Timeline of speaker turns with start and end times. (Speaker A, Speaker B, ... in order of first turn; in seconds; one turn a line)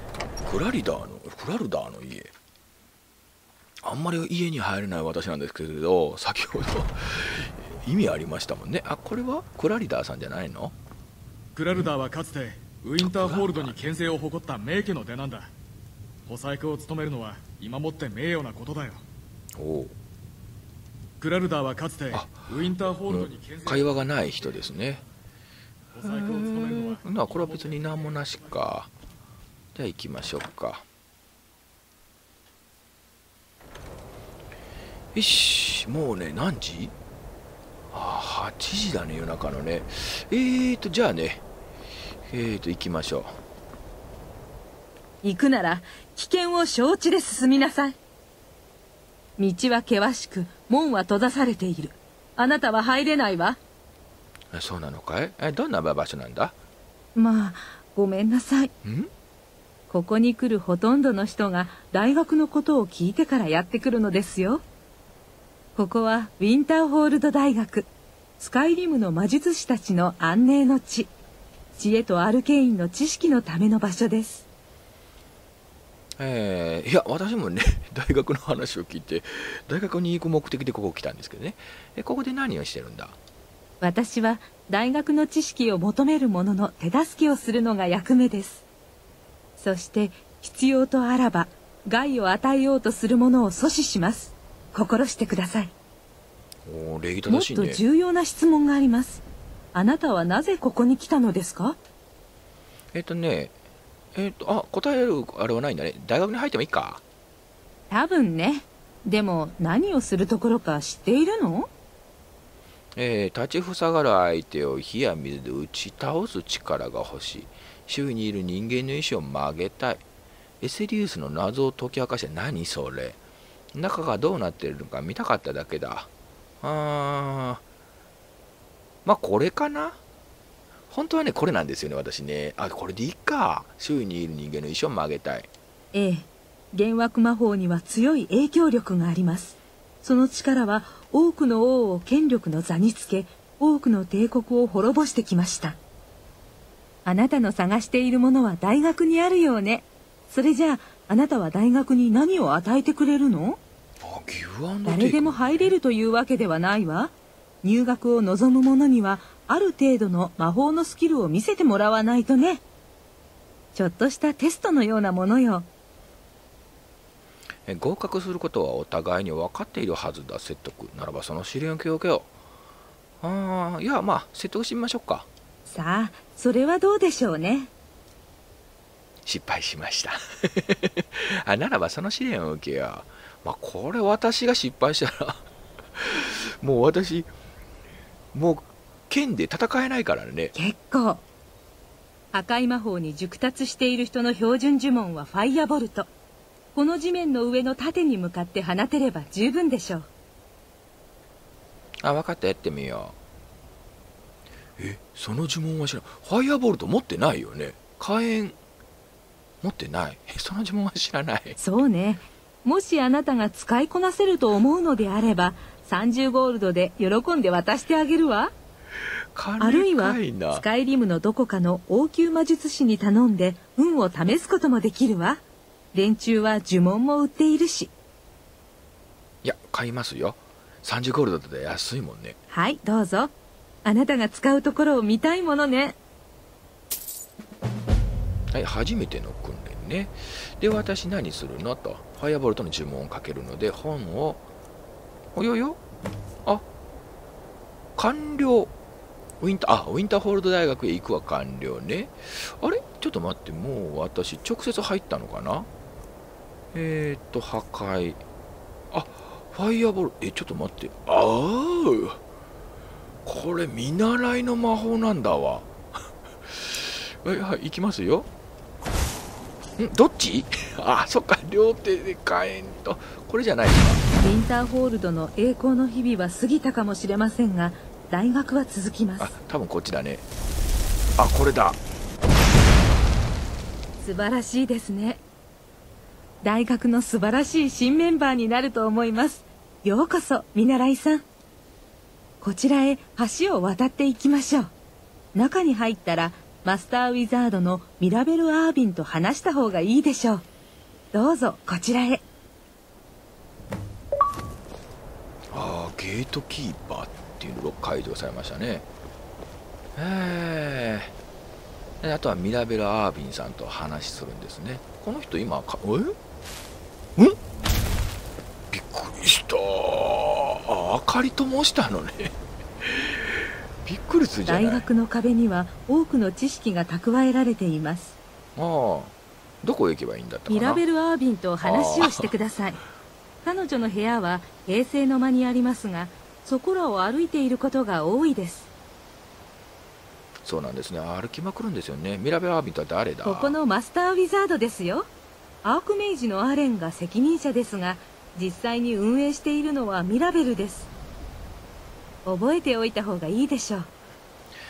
Speaker A: 0.4-2.3
Speaker A: 3.8-10.8
Speaker B: 11.6-15.5
Speaker A: 13.0-13.8
Speaker B: 16.3-19.0
Speaker A: 19.6-19.9
Speaker B: 21.2-24.6
Speaker A: 22.1-25.0
Speaker B: 25.9-28.6
Speaker A: 25.9-28.9
Speaker A: 29.7-30.8
Speaker A: 35.1-36.9
Speaker A: 37.9-41.4
Speaker A: 42.3-43.4
Speaker C: 45.2-48.0
Speaker C: 49.4-53.6
Speaker A: 54.5-56.5
Speaker C: 57.1-58.7
Speaker A: 58.8-59.1
Speaker C: 59.9-64.6
Speaker C: 65.8-71.1
Speaker C: 71.7-74.4
Speaker A: 76.2-83.2
Speaker C: 83.8-88.6
Speaker C: 89.6-95.7
Speaker A: 96.7-97.8
Speaker C: 97.3-99.2
Speaker C: 99.7-101.8
Speaker A: 102.9-103.5
Speaker A: 104.1-107.0
Speaker C: 107.9-111.7
Speaker A: 113.0-120.0
Speaker A: 120.6-123.2
Speaker A: 123.7-126.1
Speaker A: 126.6-127.6
Speaker A: 129.0-130.0
Speaker A: 130.9-135.5
Speaker C: 135.9-145.8
Speaker C: 147.0-153.6
Speaker A: 154.0-155.7
Speaker C: 154.8-162.6
Speaker C: 163.7-165.7
Speaker A: 167.7-172.3
Speaker A: 173.2-175.3
Speaker C: 175.7-177.7
Speaker A: 179.2-185.4
Speaker A: 186.0-187.3
Speaker A: 188.3-190.5
Speaker C: 190.5-191.2
Speaker C: 192.3-196.1
Speaker C: 196.7-200.1
Speaker A: 202.0-203.1
Speaker A: 204.8-208.6
Speaker A: 209.6-211.6
Speaker C: 211.6-218.5
Speaker A: 219.3-220.7
Speaker C: 219.6-225.4
Speaker C: 225.9-227.9
Speaker A: 229.4-232.4
Speaker C: 232.5-233.3
Speaker C: 233.8-235.9
Speaker A: 238.5-244.4
Speaker A: 245.3-245.8
Speaker A: 247.9-248.7
Speaker A: 249.4-255.7
Speaker A: 256.7-258.2
Speaker A: 258.9-262.2
Speaker A: 263.2-265.7
Speaker A: 266.5-268.3
Speaker A: 269.8-274.0
Speaker C: 274.2-279.4
Speaker A: 279.2-280.2
Speaker A: 281.2-281.8
Speaker C: 284.0-285.2
Speaker C: 286.4-291.2
Speaker C: 292.4-294.7
Speaker C: 295.3-300.4
Speaker C: 301.1-302.2
Speaker A: 305.5-308.8
Speaker A: 309.9-311.1
Speaker A: 312.0-316.1
Speaker A: 318.7-323.2
Speaker A: 323.8-324.9
Speaker C: 324.5-328.1
Speaker A: 328.6-330.8
Speaker C: 330.5-332.8
Speaker A: 331.6-332.3
Speaker C: 333.4-338.7
Speaker A: 340.4-343.6
Speaker C: 343.2-345.1
Speaker C: 345.6-350.9
Speaker C: 352.2-353.9